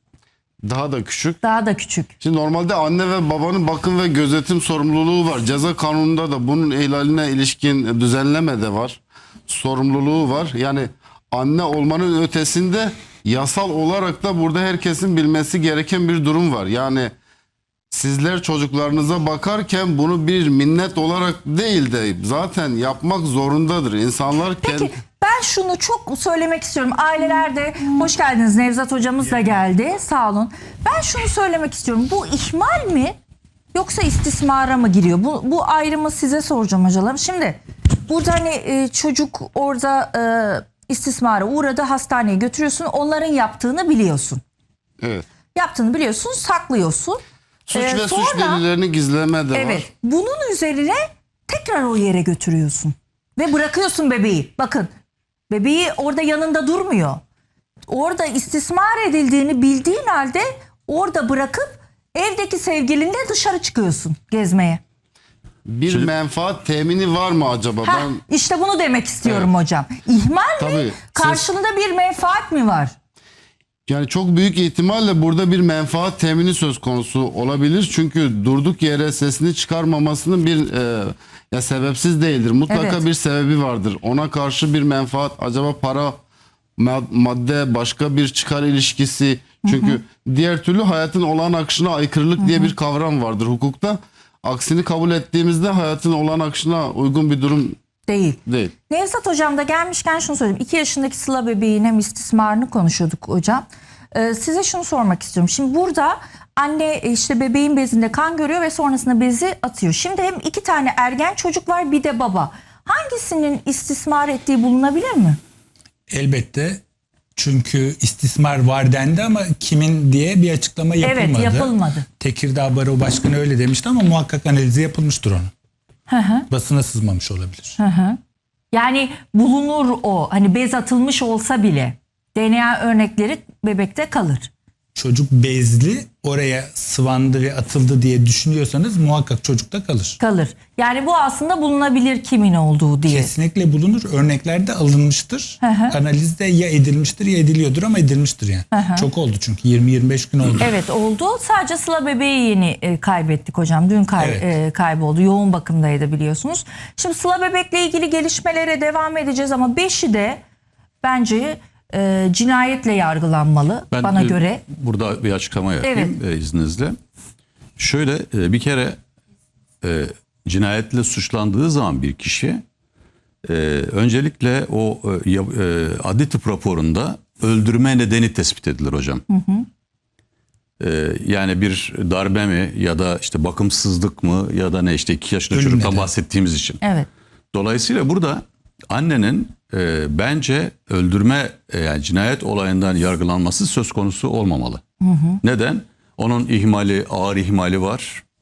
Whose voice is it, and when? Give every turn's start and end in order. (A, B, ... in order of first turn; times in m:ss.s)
0:00.6-0:01.4 A
0:01.4-0:02.1 B
0:02.2-0:17.1 A
0:17.9-0:24.9 A
0:24.6-0:33.2 B
0:33.7-0:44.4 B
0:45.5-0:48.6 B
0:47.7-0:49.8 A
0:49.5-0:54.9 B
0:55.5-0:57.2 B
0:57.9-1:04.8 B
1:05.6-1:08.2 A
1:07.8-1:12.9 B
1:10.6-1:11.4 A
1:13.9-1:26.2 A
1:22.7-1:23.0 B
1:26.8-1:37.8 A
1:29.6-1:30.0 B
1:32.4-1:32.7 B
1:38.1-1:55.4 B
1:38.4-1:38.7 A
1:56.1-1:56.8 C
1:57.4-2:05.5 C
2:01.0-2:02.0 B
2:06.1-2:06.5 B
2:06.5-2:07.8 C
2:07.8-2:08.2 B
2:08.7-2:14.5 B
2:14.9-2:20.2 C
2:20.2-2:23.3 B
2:23.0-2:30.7 C
2:25.6-2:26.0 B
2:28.7-2:29.1 B
2:30.6-2:40.4 B
2:34.2-2:34.5 C
2:41.0-2:44.6 B
2:43.9-2:47.0 D
2:45.8-2:46.2 B
2:47.8-2:49.0 D
2:49.8-2:52.6 D
2:53.4-2:59.2 D
2:59.3-2:59.7 B
3:00.8-3:06.8 D
3:05.5-3:06.1 C
3:06.8-3:07.1 B
3:07.5-3:14.8 D
3:15.0-3:15.4 B
3:15.4-3:18.2 D